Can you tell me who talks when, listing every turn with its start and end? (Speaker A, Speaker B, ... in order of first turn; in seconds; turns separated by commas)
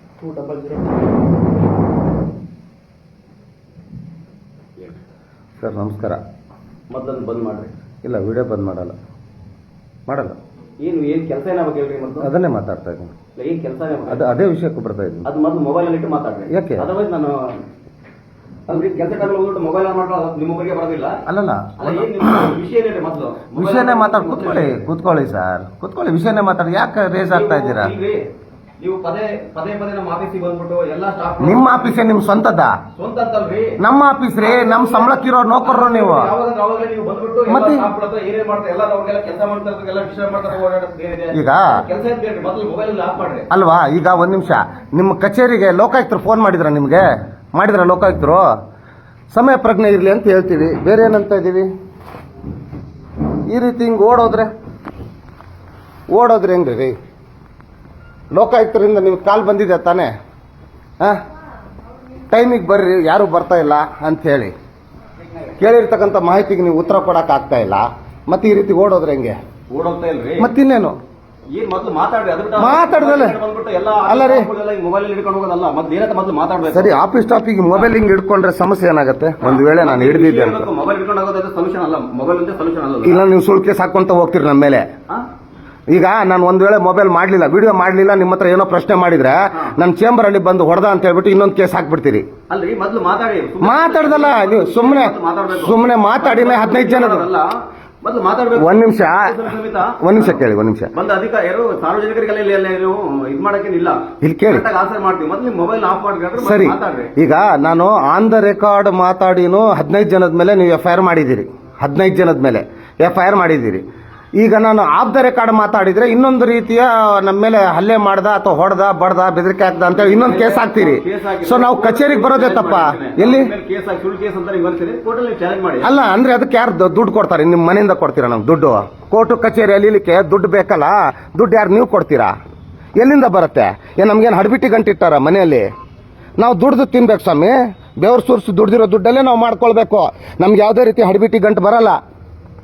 Speaker A: 0.2-0.8, Speaker B: 5.6-6.2, Speaker A: 6.9-7.8, Speaker B: 8.0-9.0, Speaker B: 10.1-10.4, Speaker A: 10.8-12.3, Speaker B: 12.2-13.1, Speaker A: 13.3-14.3, Speaker B: 14.1-15.3, Speaker A: 15.2-17.6, Speaker B: 16.5-16.9, Speaker A: 18.7-21.2, Speaker B: 21.3-22.6, Speaker A: 21.8-24.8, Speaker B: 23.6-27.9, Speaker A: 27.3-28.3, Speaker A: 28.8-32.0, Speaker B: 31.4-32.8, Speaker A: 33.0-33.8, Speaker B: 33.8-36.3, Speaker A: 34.4-43.5, Speaker B: 37.5-37.9, Speaker B: 41.3-41.7, Speaker B: 43.5-48.5, Speaker B: 49.3-51.7, Speaker B: 53.5-54.5, Speaker B: 56.1-57.0, Speaker B: 58.3-60.1, Speaker B: 62.3-64.5, Speaker B: 65.6-69.4, Speaker A: 69.7-70.5, Speaker B: 70.4-71.0, Speaker A: 71.5-77.0, Speaker B: 72.6-73.4, Speaker B: 74.0-74.5, Speaker B: 76.7-80.7, Speaker A: 79.4-83.2, Speaker B: 83.0-84.9, Speaker B: 85.9-92.3, Speaker A: 92.5-97.5, Speaker B: 93.6-97.3, Speaker A: 98.0-100.4, Speaker B: 98.6-99.5, Speaker B: 100.0-100.9, Speaker A: 100.9-107.1, Speaker B: 104.2-104.7, Speaker B: 106.4-113.8, Speaker B: 114.4-123.5, Speaker A: 119.9-126.0, Speaker B: 125.8-132.3, Speaker B: 133.0-135.7, Speaker B: 136.4-142.0